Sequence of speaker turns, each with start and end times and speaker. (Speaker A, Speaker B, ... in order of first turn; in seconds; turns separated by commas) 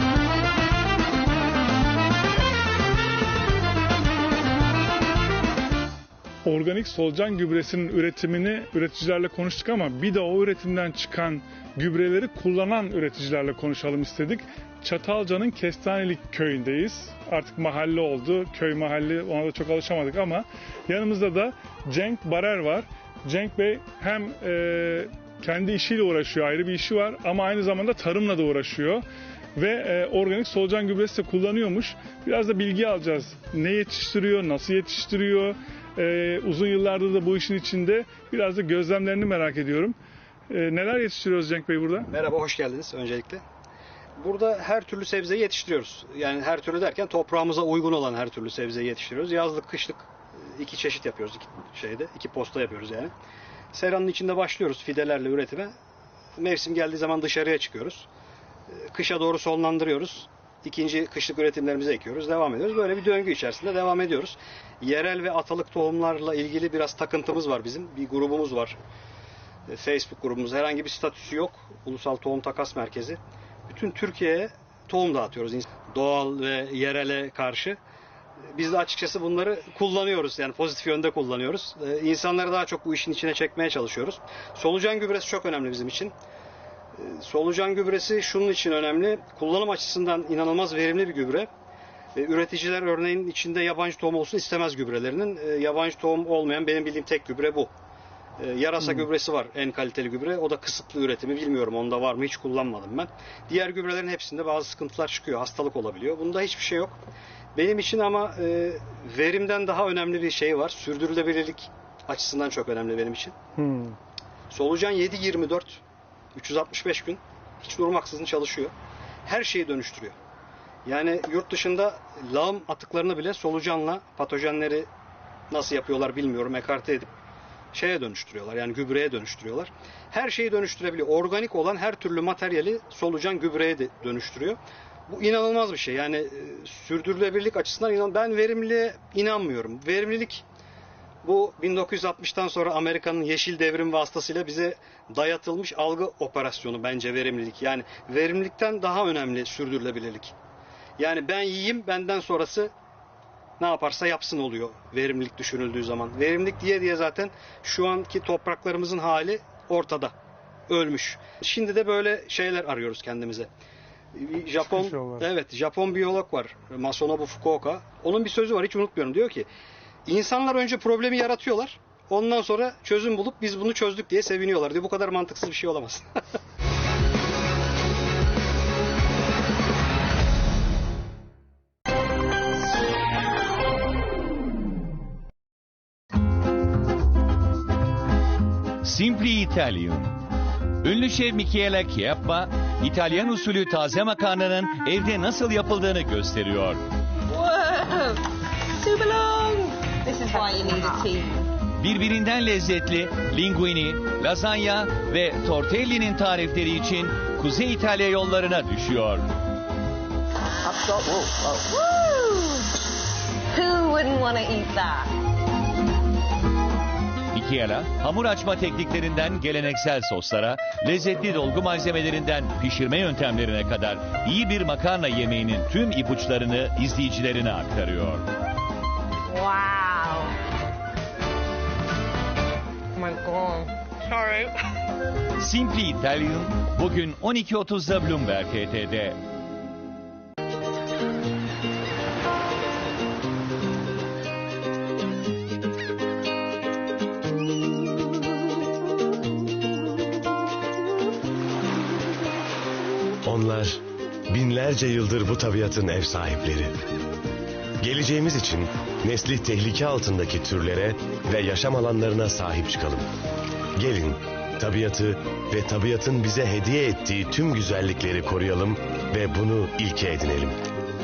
Speaker A: 6.4-29.0, Speaker A: 29.6-40.0, Speaker A: 40.5-42.1, Speaker B: 42.1-43.4, Speaker B: 44.2-53.1, Speaker B: 53.7-55.7, Speaker B: 56.4-58.1, Speaker B: 58.7-68.8, Speaker B: 69.7-77.8, Speaker B: 78.5-86.1, Speaker B: 87.0-91.5, Speaker B: 92.1-97.7, Speaker B: 98.4-107.0, Speaker B: 107.5-113.3, Speaker A: 113.6-114.0, Speaker B: 114.5-115.8, Speaker B: 116.3-118.7, Speaker B: 119.2-120.1, Speaker B: 120.8-124.9, Speaker B: 125.5-127.1, Speaker B: 127.7-140.4, Speaker B: 141.2-150.3, Speaker B: 151.0-152.7, Speaker B: 153.6-160.1, Speaker B: 160.7-163.5, Speaker B: 164.1-169.5, Speaker A: 164.7-165.3, Speaker B: 170.1-176.1, Speaker C: 188.8-190.2, Speaker C: 190.8-196.8, Speaker D: 197.3-198.2, Speaker D: 198.8-201.5, Speaker C: 201.8-209.3, Speaker D: 210.6-212.7, Speaker D: 213.5-215.1, Speaker C: 217.3-228.2, Speaker D: 229.3-230.3, Speaker D: 232.9-234.5, Speaker C: 235.4-239.2, Speaker E: 253.2-256.8, Speaker E: 257.8-263.1, Speaker E: 263.8-270.6